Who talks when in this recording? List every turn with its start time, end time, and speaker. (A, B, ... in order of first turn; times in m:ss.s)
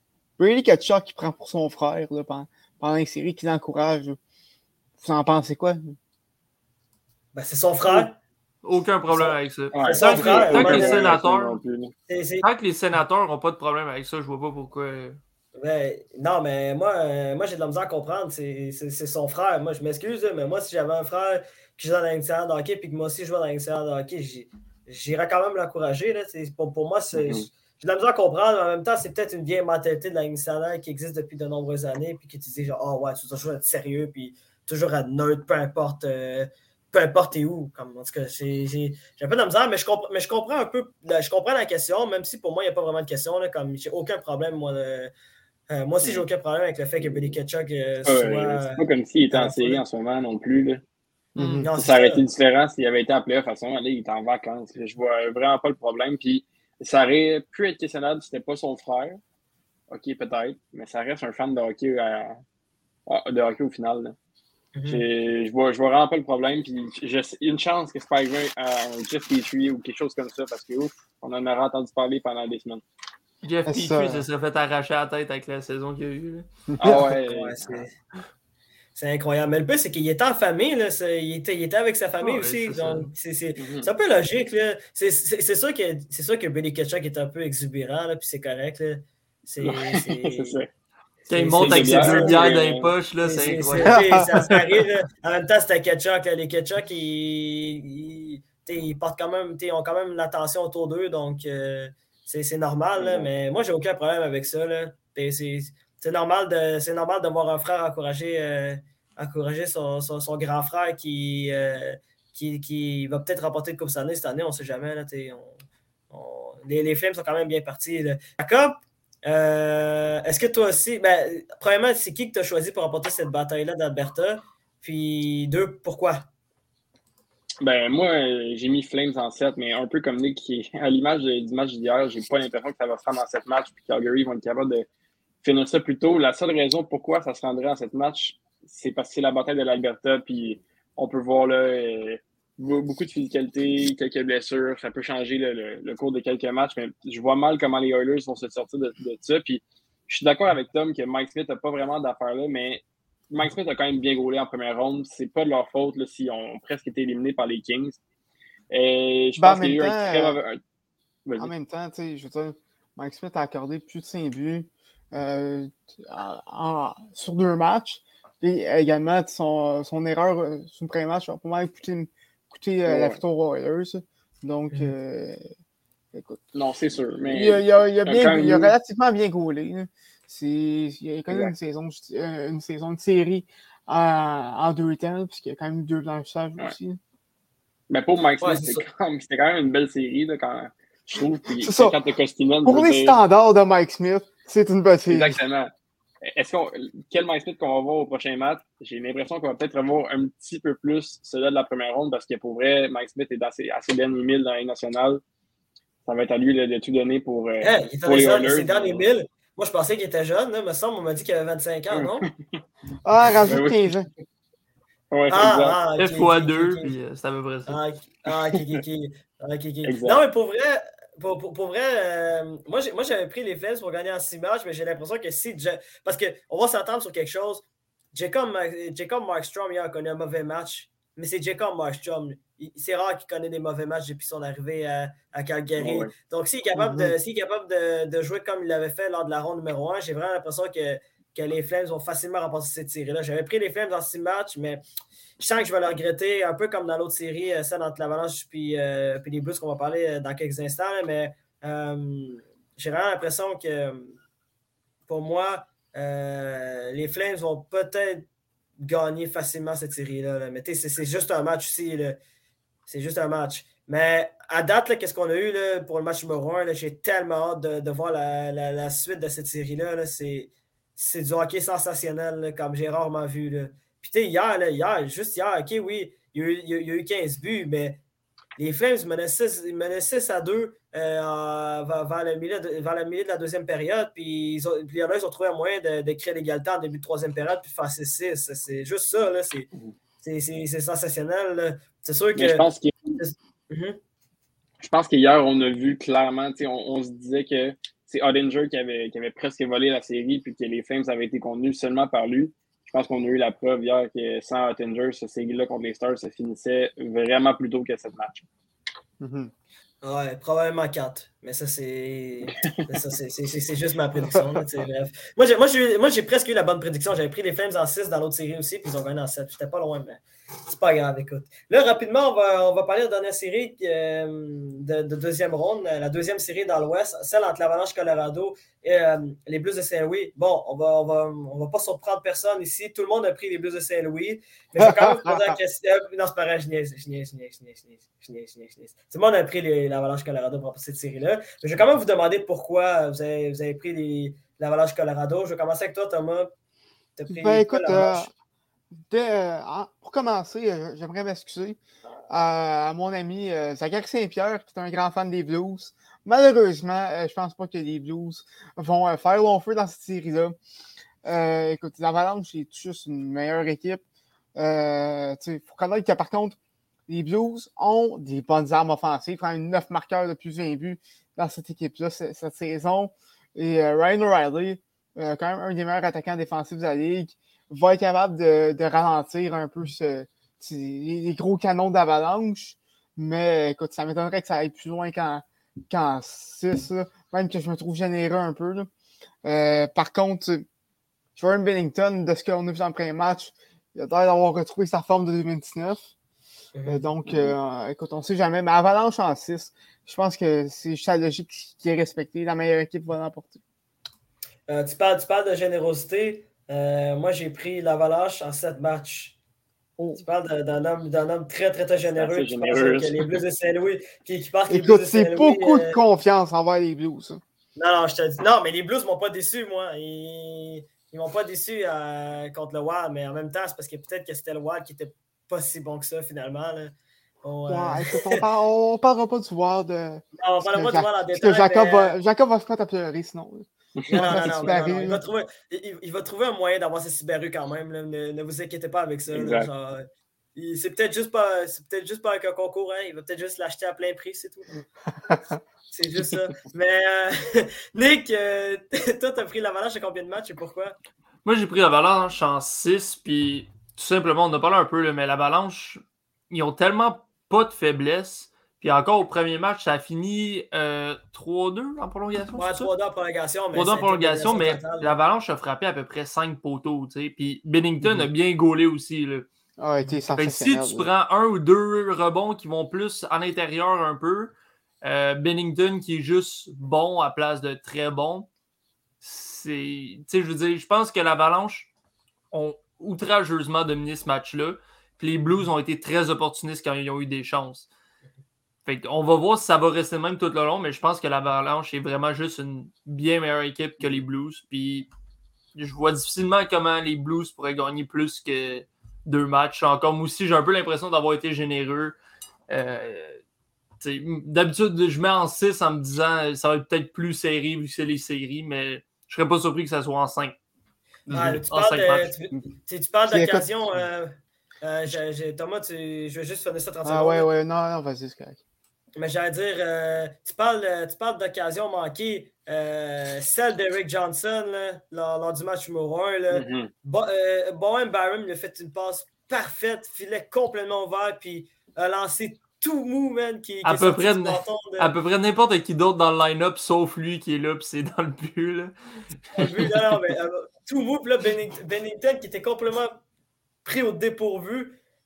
0:00.4-0:04.2 A
0:05.0-0:06.0 A
0:07.3-0:08.2 B
0:08.6-0:11.6 C
0:09.1-0:11.1 B
0:09.7-0:11.9 D
0:12.1-0:12.5 B
0:12.4-0:15.2 C
0:15.6-0:45.1 B
0:27.1-0:27.5 D
0:45.7-0:49.8 B
0:47.0-0:47.4 D
0:48.0-0:50.8 D
0:51.4-0:51.7 A
0:51.4-0:59.2 D
0:51.6-0:52.2 B
0:59.9-1:02.4 D
1:03.1-1:04.2 D
1:04.7-1:05.0 B
1:04.9-1:12.8 D
1:13.4-1:16.5 C
1:13.7-1:14.2 A
1:16.7-1:17.0 A
1:16.8-1:17.8 D
1:16.8-1:17.9 B
1:19.0-1:30.6 B
1:22.2-1:23.1 C
1:23.6-1:23.9 D
1:29.6-1:30.7 D
1:31.2-1:32.5 B
1:31.3-1:34.0 C
1:31.5-1:32.9 D
1:33.2-1:55.5 B
1:33.8-1:34.3 A
1:43.0-1:43.3 D
1:56.1-2:06.2 B
2:07.6-2:14.9 D
2:15.4-2:38.0 D
2:38.7-2:40.6 D
2:39.4-2:40.4 A
2:41.2-2:41.5 D
2:41.4-2:55.4 A
2:52.8-2:53.2 D
2:56.1-2:56.4 A
2:56.5-2:58.7 D
2:57.3-3:07.0 A
3:07.9-3:13.2 D
3:08.4-3:08.8 B
3:11.6-3:12.0 A
3:12.6-3:15.4 A
3:15.1-3:15.7 D
3:16.2-3:25.2 D
3:26.0-3:29.0 D
3:27.6-3:32.3 B
3:31.9-3:32.6 D
3:33.0-3:34.1 A
3:33.4-3:34.0 D
3:35.1-3:35.8 D
3:35.3-3:36.9 B
3:36.0-3:37.8 C
3:37.7-4:04.8 B
3:39.8-3:40.2 D
3:55.8-3:56.1 D
3:56.7-3:57.1 A
4:05.4-4:14.1 B
4:15.1-4:18.2 B
4:18.8-4:22.2 B
4:22.9-4:38.0 B
4:38.6-4:49.7 B
4:50.2-4:52.6 B
4:52.4-4:53.2 D
4:53.1-4:54.0 B
4:54.8-5:08.4 D
5:09.2-5:09.5 A
5:10.0-5:46.5 B
5:34.8-5:35.6 A
5:47.2-5:48.3 B
5:47.3-5:48.3 A
5:49.1-5:51.8 A
5:52.3-6:00.6 A
6:01.2-6:04.0 A
6:04.5-6:06.6 A
6:07.1-6:28.9 A
6:29.4-6:30.6 A
6:31.4-6:36.1 A
6:36.8-6:37.0 B
6:36.8-6:43.6 A
6:44.7-6:49.3 B
6:50.2-6:56.0 B
6:52.2-6:53.4 D
6:54.7-6:57.4 A
6:57.8-7:08.4 B
7:07.7-7:15.2 A
7:10.4-7:12.1 B
7:14.0-7:14.4 D
7:14.1-7:24.6 B
7:19.3-7:19.7 D
7:25.2-7:25.6 A
7:25.9-7:31.0 B
7:31.4-7:42.9 C
7:42.5-7:45.2 B
7:43.7-7:49.5 C
7:48.0-7:48.3 A
7:49.8-7:51.1 A
7:50.3-7:58.5 C
7:59.2-8:01.9 C
8:02.5-8:07.9 C
8:08.8-8:15.1 C
8:15.7-8:22.1 C
8:22.7-8:23.4 C
8:24.0-8:30.6 C
8:31.3-8:31.6 A
8:31.3-8:32.3 C
8:31.3-8:37.5 B
8:33.3-8:33.7 A
8:37.0-8:38.6 A
8:39.2-8:55.1 B
8:46.5-8:46.9 D
8:53.8-8:58.9 C
8:59.5-8:59.8 C
8:59.6-9:03.2 B
9:03.8-9:05.0 B